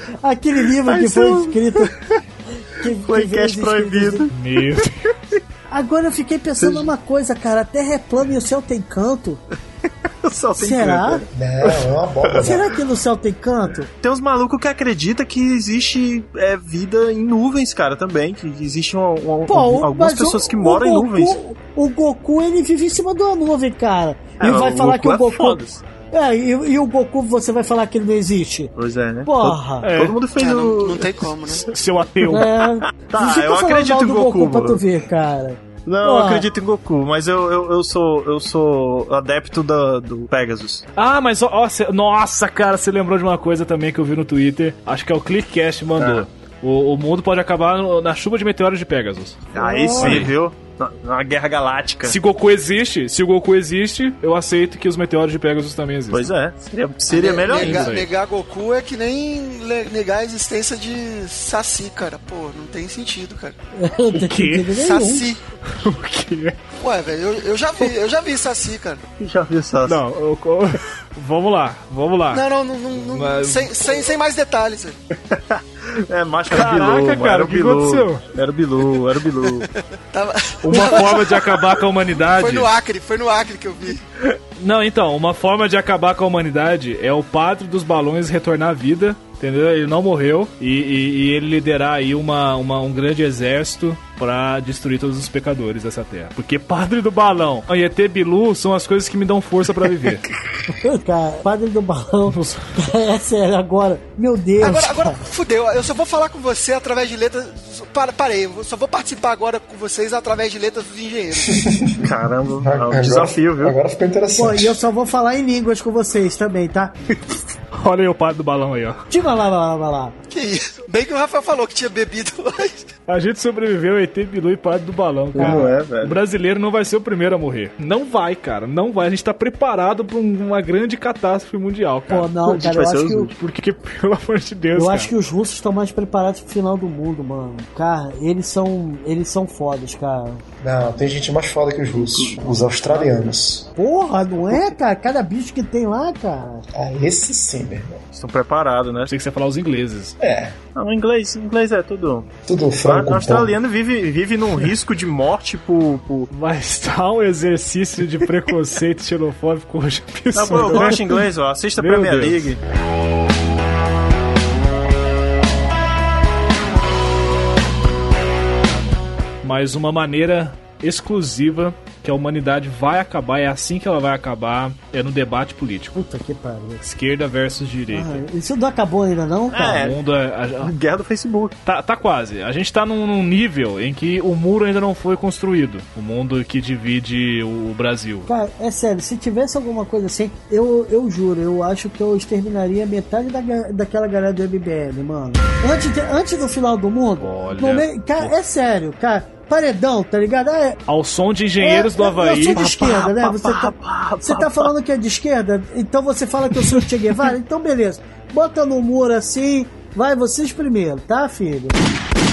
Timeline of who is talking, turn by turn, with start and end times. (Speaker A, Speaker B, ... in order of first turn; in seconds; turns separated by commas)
Speaker A: 0.2-1.9, Speaker B: 0.8-2.2, Speaker A: 2.8-4.3, Speaker B: 3.0-4.3, Speaker C: 4.3-5.1, Speaker A: 5.7-9.4, Speaker B: 6.6-6.9, Speaker B: 10.2-12.5, Speaker A: 10.6-11.2, Speaker D: 11.3-12.7, Speaker A: 12.4-13.9, Speaker B: 14.0-21.4, Speaker A: 19.5-25.6, Speaker B: 24.4-25.8, Speaker A: 26.1-28.7, Speaker B: 28.8-31.5, Speaker A: 29.3-29.9, Speaker C: 29.8-30.2, Speaker E: 30.4-31.7, Speaker C: 31.6-32.5, Speaker A: 32.3-36.5, Speaker B: 32.9-34.8, Speaker B: 35.9-40.9, Speaker C: 41.0-49.4, Speaker B: 46.0-46.2, Speaker B: 49.5-52.2, Speaker A: 49.6-50.3, Speaker C: 50.0-50.3, Speaker C: 52.0-56.3, Speaker B: 56.1-57.9, Speaker E: 57.1-63.5, Speaker C: 57.5-58.1, Speaker A: 63.8-65.3, Speaker C: 64.1-64.7, Speaker E: 64.7-65.4, Speaker C: 65.7-66.6, Speaker E: 66.8-69.0, Speaker B: 69.2-70.0, Speaker C: 69.9-72.4, Speaker E: 72.3-75.0, Speaker C: 73.0-73.7, Speaker B: 75.3-79.7, Speaker C: 76.5-78.2, Speaker E: 80.1-81.8, Speaker C: 80.6-82.7, Speaker E: 82.3-84.0, Speaker C: 84.6-100.3, Speaker A: 100.8-105.2, Speaker C: 102.3-102.7, Speaker E: 104.6-111.7, Speaker D: 111.5-112.0, Speaker B: 112.0-113.8, Speaker D: 112.6-114.8, Speaker A: 114.3-116.9, Speaker C: 117.8-119.0, Speaker A: 119.1-120.2, Speaker E: 120.3-122.9, Speaker C: 123.1-132.3, Speaker B: 125.3-126.2, Speaker A: 125.4-125.7, Speaker A: 132.1-133.3, Speaker B: 132.5-133.3, Speaker C: 133.3-135.1, Speaker A: 134.8-140.4, Speaker D: 140.6-143.7, Speaker B: 141.9-143.1, Speaker A: 143.8-146.6, Speaker D: 146.7-148.0, Speaker B: 148.1-149.1, Speaker C: 149.1-150.2, Speaker D: 150.2-150.6, Speaker B: 150.8-152.3, Speaker D: 152.5-153.6, Speaker B: 152.8-156.3, Speaker C: 156.3-161.2, Speaker B: 160.3-162.6, Speaker C: 161.8-162.5, Speaker C: 169.4-176.0, Speaker A: 176.0-176.8, Speaker C: 176.8-178.2, Speaker A: 177.9-179.9, Speaker B: 179.5-180.0, Speaker C: 179.7-180.7, Speaker B: 180.6-181.6, Speaker C: 181.7-188.3, Speaker A: 188.3-200.8, Speaker C: 197.2-198.3, Speaker C: 200.9-202.7, Speaker A: 201.6-203.7, Speaker B: 202.5-204.7, Speaker A: 204.2-211.8